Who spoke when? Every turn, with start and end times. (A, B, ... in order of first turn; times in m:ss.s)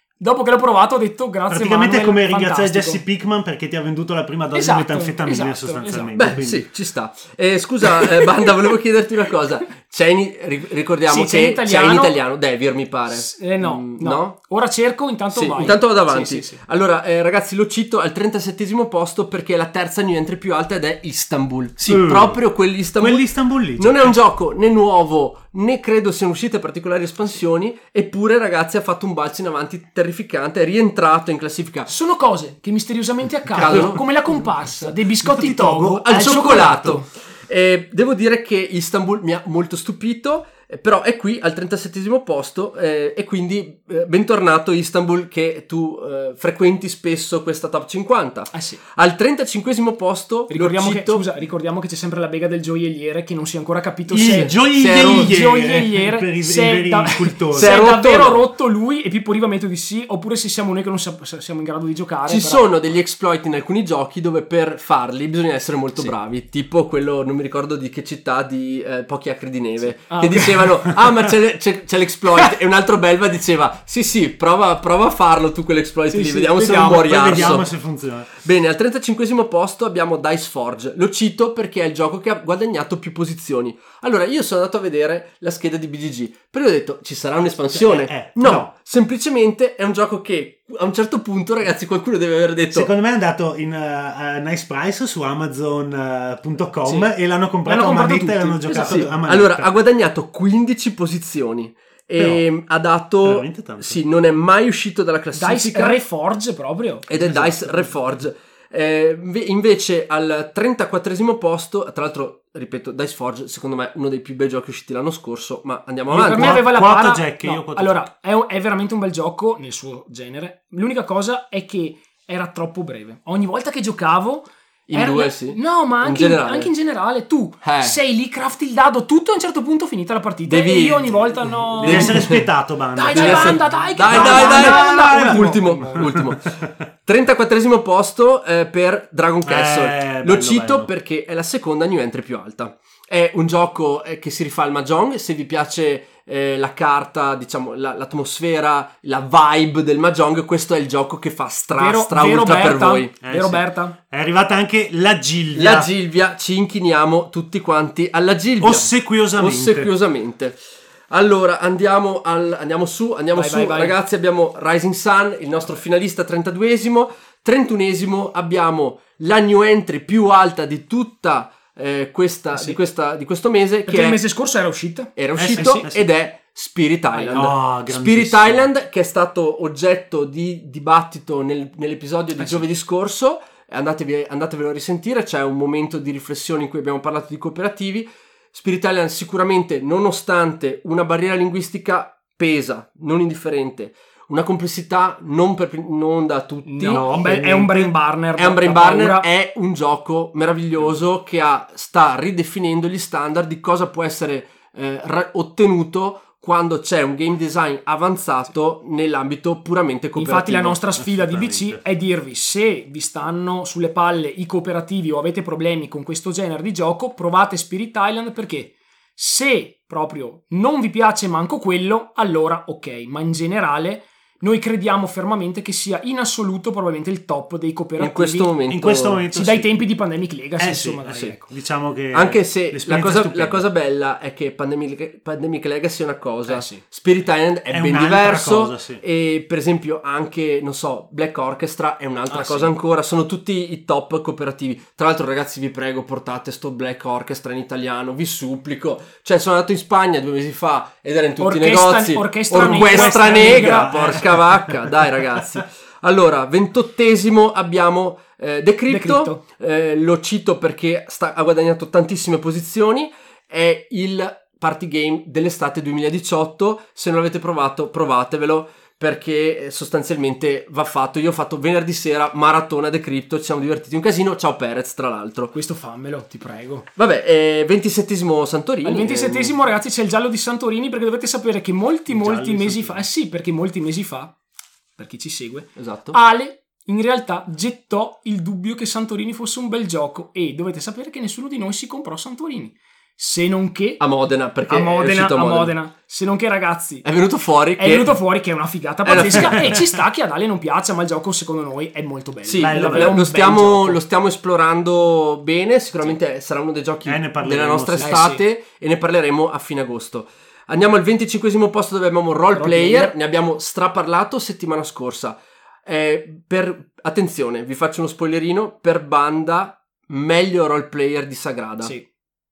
0:00.2-0:03.0 A
0:01.5-0:06.7 B
0:04.5-0:06.3 A
0:06.1-0:14.3 C
0:11.1-0:12.1 A
0:13.1-0:16.6 A
0:15.3-0:31.9 C
0:21.8-0:22.4 B
0:23.0-0:24.2 B
0:31.9-0:37.0 A
0:33.5-0:37.0 B
0:33.6-0:34.0 C
0:36.1-0:51.2 C
0:48.5-0:48.8 A
0:50.5-1:02.6 A
0:54.1-0:57.8 B
0:54.4-0:55.4 C
0:57.5-0:58.5 C
1:02.3-1:17.7 C
1:10.1-1:10.6 A
1:16.1-1:17.6 A
1:16.6-1:18.3 B
1:18.4-1:32.9 C
1:27.7-1:28.7 B
1:32.7-1:39.7 B
1:37.6-1:39.0 A
1:38.7-1:46.0 C
1:42.2-1:42.4 B
1:43.2-1:44.0 B
1:45.3-1:47.0 A
1:47.1-1:56.6 C
1:47.1-1:47.9 B
1:56.1-1:58.1 B
1:56.1-2:12.3 A
2:04.9-2:06.7 C
2:07.6-2:08.0 C
2:10.4-2:11.2 C
2:11.8-2:12.5 C
2:11.8-2:16.7 B
2:12.9-2:16.1 A
2:13.1-2:16.5 C
2:17.0-2:33.1 C
2:19.4-2:20.9 B
2:31.8-2:34.0 A
2:33.2-2:35.9 B
2:35.5-2:40.6 C
2:38.6-2:39.9 B
2:41.1-2:54.2 C
2:43.3-2:44.0 A
2:53.9-2:55.9 A
2:55.2-3:30.8 C
2:55.4-2:56.0 B
2:57.1-2:57.5 A
2:57.3-2:58.7 B
3:16.6-3:19.3 A
3:16.9-3:17.7 B
3:30.2-3:48.5 A
3:31.0-3:31.8 B
3:48.0-3:49.2 C
3:48.7-3:49.8 B
3:49.3-3:51.3 A
3:50.6-3:53.6 B
3:52.1-4:35.5 C
3:56.4-3:56.8 A
3:57.7-3:59.0 B
4:02.3-4:02.7 A
4:11.4-4:13.9 A
4:12.6-4:15.6 B
4:18.9-4:19.4 A
4:35.5-4:36.8 A
4:37.0-4:39.5 C
4:38.8-4:44.3 A
4:42.1-4:43.0 B
4:45.0-4:54.0 A
4:45.8-4:46.2 C
4:54.0-4:55.8 C
4:54.7-4:57.0 A
4:57.0-4:58.2 C
4:57.8-5:04.0 A
4:59.0-4:59.8 C
4:59.1-5:00.0 B
5:02.5-5:21.9 C
5:02.6-5:03.2 B
5:07.0-5:08.2 B
5:08.0-5:08.4 A
5:12.5-5:13.1 A